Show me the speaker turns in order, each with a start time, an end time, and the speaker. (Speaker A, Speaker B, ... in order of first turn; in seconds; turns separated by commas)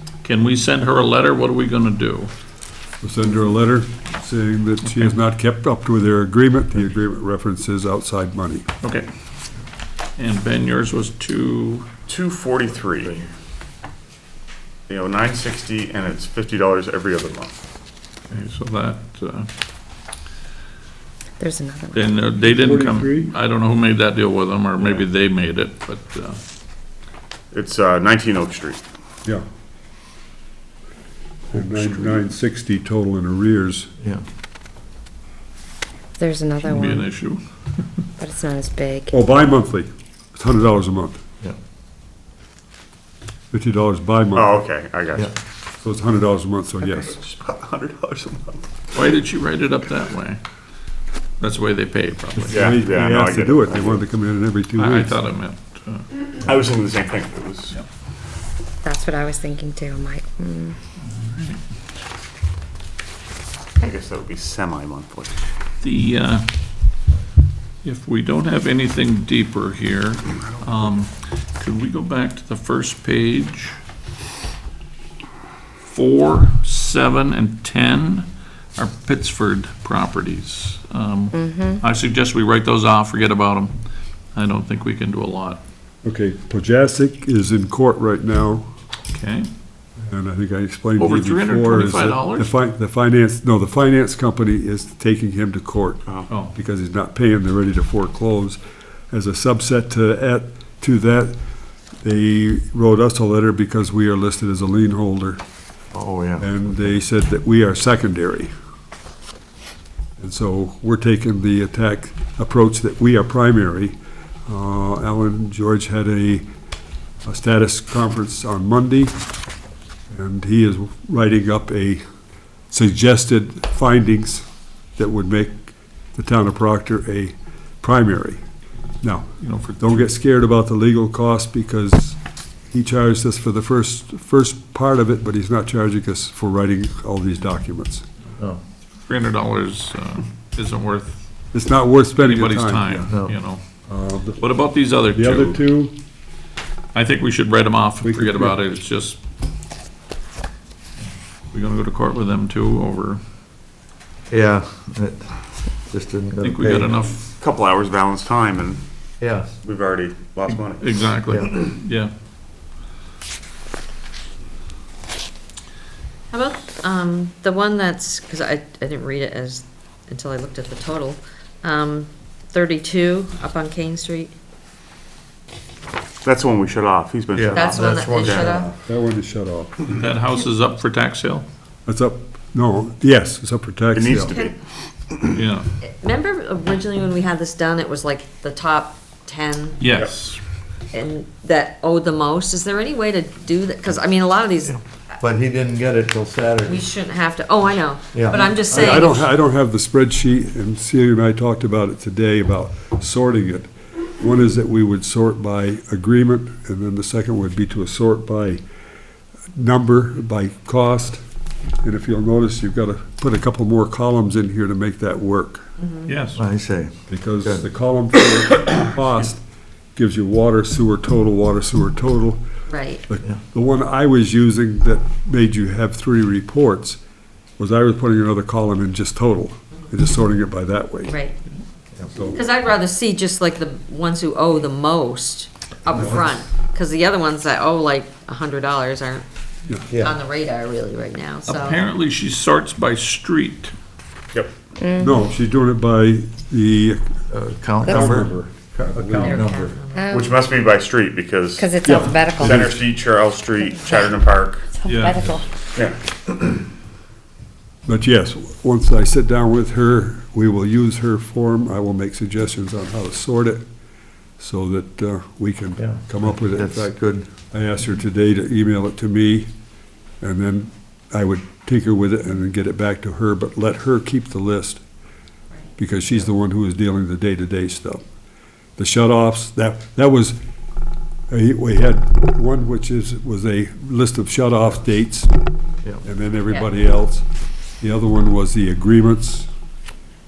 Speaker A: 0.2-2.3, Speaker B: 3.0-8.7, Speaker A: 8.8-9.1, Speaker A: 10.2-11.9, Speaker C: 12.1-13.2, Speaker C: 14.9-17.6, Speaker A: 18.3-19.5, Speaker D: 21.4-22.3, Speaker A: 21.9-26.4, Speaker B: 22.4-23.3, Speaker C: 27.5-28.8, Speaker B: 31.5-33.9, Speaker D: 36.2-37.1, Speaker A: 36.6-38.0, Speaker D: 38.2-39.1, Speaker B: 39.1-41.2, Speaker B: 43.5-44.5, Speaker C: 44.3-45.3, Speaker B: 45.8-47.2, Speaker C: 47.1-48.7, Speaker A: 48.9-50.4, Speaker A: 51.4-52.6, Speaker C: 52.5-54.0, Speaker B: 52.5-55.1, Speaker A: 54.8-56.0, Speaker C: 56.4-57.7, Speaker D: 58.8-60.8, Speaker A: 61.0-61.6, Speaker C: 63.8-65.3, Speaker A: 65.8-66.5, Speaker A: 67.8-73.7, Speaker A: 75.8-83.7, Speaker D: 81.3-81.8, Speaker A: 84.3-85.6, Speaker B: 86.0-88.7, Speaker A: 89.1-89.5, Speaker B: 90.0-98.6, Speaker A: 91.0-92.5, Speaker B: 99.1-101.3, Speaker B: 102.0-105.4, Speaker E: 105.9-106.8, Speaker B: 106.4-108.5, Speaker B: 110.2-114.0, Speaker B: 114.5-116.5, Speaker B: 117.2-119.2, Speaker B: 120.1-122.0, Speaker B: 122.7-124.4, Speaker B: 125.0-128.4, Speaker B: 129.0-132.2, Speaker A: 129.4-130.0, Speaker B: 132.7-138.0, Speaker A: 139.0-141.2, Speaker B: 141.5-143.1, Speaker A: 142.2-143.6, Speaker E: 143.1-143.3, Speaker B: 143.9-144.4, Speaker A: 144.4-145.6, Speaker B: 145.1-145.9, Speaker A: 146.9-149.2, Speaker B: 148.0-148.6, Speaker A: 151.5-153.2, Speaker E: 154.3-157.0, Speaker A: 156.4-157.3, Speaker C: 157.4-158.8, Speaker E: 159.2-159.5, Speaker C: 159.6-160.9, Speaker A: 160.5-162.1, Speaker E: 161.3-161.6, Speaker F: 166.3-174.3, Speaker C: 176.2-178.6, Speaker E: 177.3-178.8, Speaker F: 177.5-178.7, Speaker B: 178.8-179.7, Speaker A: 179.9-181.4, Speaker B: 181.8-184.3, Speaker C: 183.9-185.3, Speaker A: 185.3-185.7, Speaker F: 185.8-189.8, Speaker A: 189.8-190.4, Speaker F: 190.9-194.8, Speaker E: 195.2-196.9, Speaker F: 196.6-199.2, Speaker E: 198.1-199.1, Speaker B: 198.7-208.6, Speaker B: 209.5-211.2, Speaker B: 211.8-215.7, Speaker F: 215.8-216.1, Speaker A: 216.1-216.4, Speaker E: 216.3-217.7, Speaker B: 217.1-219.4, Speaker B: 219.9-222.4, Speaker F: 222.7-223.0, Speaker B: 223.1-227.0, Speaker B: 227.6-231.2, Speaker F: 231.1-231.3, Speaker B: 232.1-232.5, Speaker F: 232.3-239.2, Speaker E: 239.9-240.2, Speaker F: 239.9-241.8, Speaker A: 241.4-243.7, Speaker D: 244.8-245.1, Speaker B: 245.0-247.1, Speaker E: 247.3-249.8, Speaker B: 247.8-249.5, Speaker F: 249.2-250.0, Speaker D: 249.9-250.3, Speaker C: 250.1-254.7, Speaker D: 251.6-252.7, Speaker B: 251.8-252.8, Speaker D: 254.7-255.4, Speaker A: 254.8-255.3, Speaker C: 255.7-256.4, Speaker B: 257.9-263.6, Speaker B: 264.4-266.9, Speaker E: 265.8-267.3, Speaker B: 267.5-269.5, Speaker B: 270.2-274.8, Speaker B: 275.8-278.0, Speaker B: 278.8-280.4, Speaker B: 281.3-285.3, Speaker B: 286.0-287.2, Speaker B: 287.8-289.5